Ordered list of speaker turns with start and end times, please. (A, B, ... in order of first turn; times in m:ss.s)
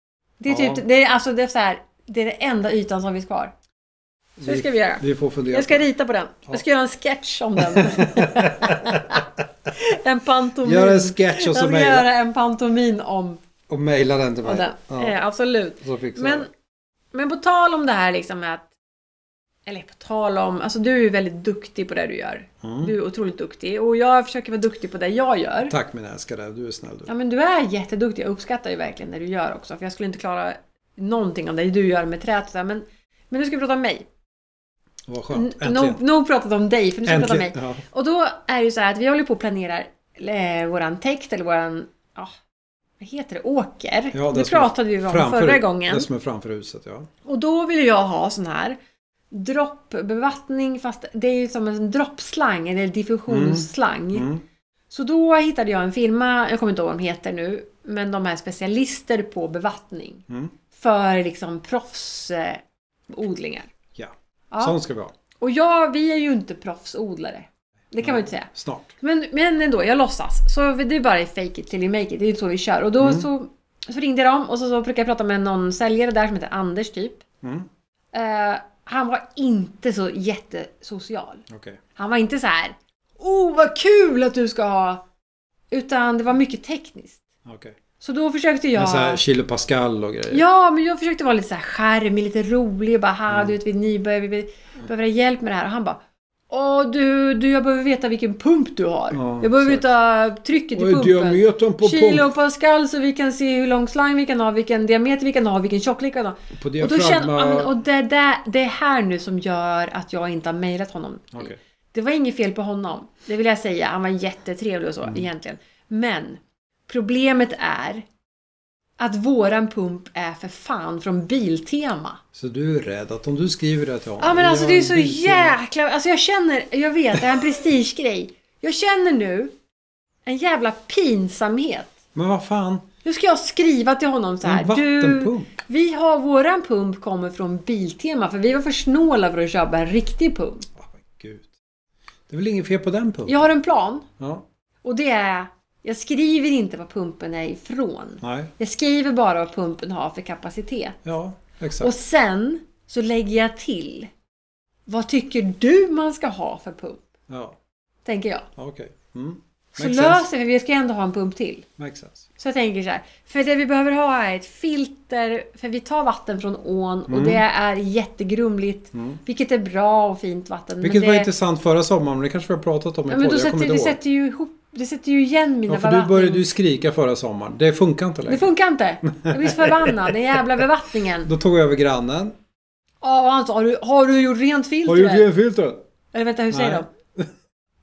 0:00.4-0:03.5 A
0:00.5-0:00.8 B
0:04.4-0:05.9 B
0:04.4-0:13.4 A
0:07.6-0:09.3 B
0:10.6-0:12.1 B
0:13.7-0:15.1 B
0:14.4-0:16.5 A
0:15.8-0:16.5 B
0:17.1-0:18.6 A
0:19.7-0:25.7 A
0:22.6-0:22.9 B
0:25.7-0:27.1 B
0:27.1-0:34.1 A
0:35.1-0:36.0 B
0:35.3-0:42.3 A
0:37.0-0:37.8 B
0:43.0-0:46.1 A
0:44.1-0:47.1 B
0:47.2-0:48.8 A
0:49.3-0:54.3 A
0:53.3-0:54.4 B
0:54.9-1:03.7 A
1:03.9-1:05.1 B
1:04.5-1:04.8 A
1:05.4-1:17.2 A
1:08.0-1:08.9 B
1:13.0-1:13.3 B
1:17.4-1:17.7 B
1:18.1-1:21.4 A
1:21.5-1:21.8 B
1:22.0-1:25.0 A
1:25.7-1:27.2 A
1:27.4-1:27.8 B
1:28.0-1:29.2 A
1:28.7-1:30.4 B
1:30.3-1:58.0 A
1:33.3-1:33.5 B
1:39.1-1:39.9 B
1:40.7-1:42.3 B
1:46.5-1:47.7 B
1:59.0-2:02.2 A
2:02.3-2:05.6 B
2:04.2-2:09.5 A
2:10.2-2:11.9 A
2:12.1-2:12.9 B
2:13.0-2:20.7 A
2:14.4-2:15.5 B
2:20.8-2:21.5 B
2:22.3-2:23.5 B
2:23.3-2:24.1 A
2:24.2-2:24.4 B
2:24.8-2:31.0 A
2:28.2-2:28.5 B
2:31.0-2:31.9 B
2:31.8-2:34.1 A
2:34.9-2:37.0 A
2:37.3-2:37.6 B
2:38.0-2:38.5 A
2:38.6-2:40.3 B
2:39.7-2:41.6 A
2:41.8-2:42.3 B
2:42.4-2:51.3 A
2:47.1-2:47.4 B
2:48.9-2:49.2 B
2:50.8-2:54.0 B
2:53.1-2:56.5 A
2:55.7-2:58.5 B
2:58.3-3:01.3 A
2:59.0-3:00.6 B
3:01.2-3:02.3 B
3:03.0-3:05.3 A
3:04.8-3:05.8 B
3:06.1-3:06.9 A
3:06.5-3:07.3 B